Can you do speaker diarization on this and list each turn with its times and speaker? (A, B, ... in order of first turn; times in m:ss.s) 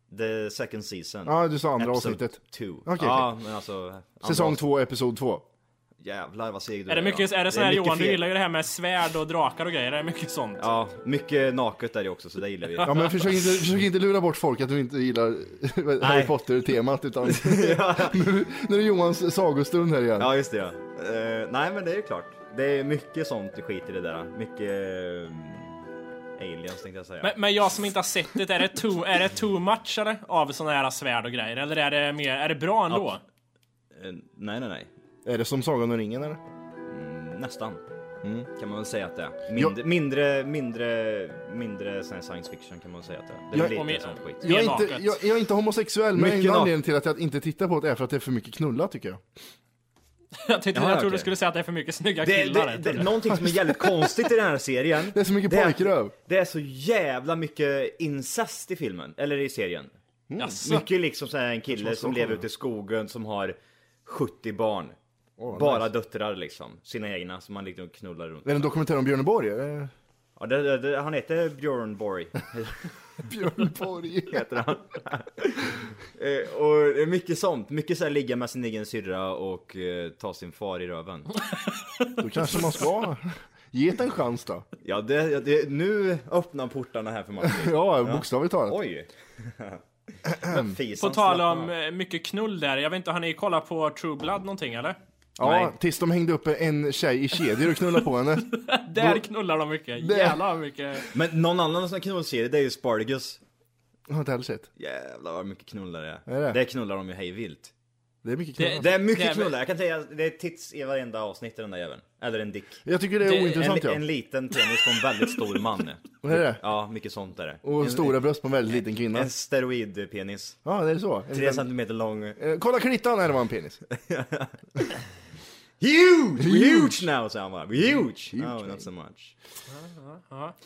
0:00.1-0:04.6 A
0:01.2-0:03.3 B
0:04.2-0:05.4 B
0:06.0-0:08.2 A
0:06.9-0:10.6 C
0:10.6-0:13.0 A
0:12.8-0:20.3 B
0:16.0-0:16.4 A
0:17.2-0:18.3 A
0:20.2-0:25.8 A
0:26.4-0:27.4 A
0:27.2-0:33.2 C
0:33.9-0:34.9 A
0:35.2-0:36.4 B
0:36.9-0:37.8 A
0:38.2-0:38.5 B
0:38.5-0:44.5 A
0:43.6-0:45.2 C
0:44.4-0:49.2 B
0:46.1-0:46.7 A
0:50.4-0:53.1 C
0:50.7-0:51.3 A
0:52.2-0:59.9 A
0:53.3-0:54.2 B
0:55.1-0:56.1 B
1:00.3-1:00.6 B
1:00.4-1:00.8 C
1:00.5-1:05.0 A
1:01.7-1:02.4 B
1:05.4-1:05.9 B
1:05.5-1:08.6 A
1:08.4-1:09.9 B
1:10.4-1:12.9 A
1:13.2-1:14.5 B
1:14.3-1:21.3 A
1:22.2-1:24.6 B
1:24.8-1:29.8 A
1:27.4-1:28.8 B
1:30.2-1:30.8 B
1:30.4-1:31.7 A
1:31.0-1:35.0 C
1:35.4-1:39.2 B
1:35.4-1:35.7 A
1:38.5-1:41.1 C
1:40.0-1:40.4 B
1:41.1-1:43.4 A
1:44.1-1:44.7 B
1:44.8-1:47.7 A
1:46.3-1:46.6 B
1:48.2-1:49.0 B
1:48.6-1:49.5 C
1:48.8-1:58.2 A
1:52.8-1:54.0 B
1:56.2-1:56.6 B
1:57.6-1:59.3 B
1:58.7-2:00.6 A
2:00.6-2:01.7 B
2:01.3-2:02.4 A
2:02.4-2:03.8 B
2:03.9-2:05.0 A
2:05.8-2:09.3 A
2:06.4-2:07.0 B
2:08.3-2:08.8 B
2:09.7-2:10.5 C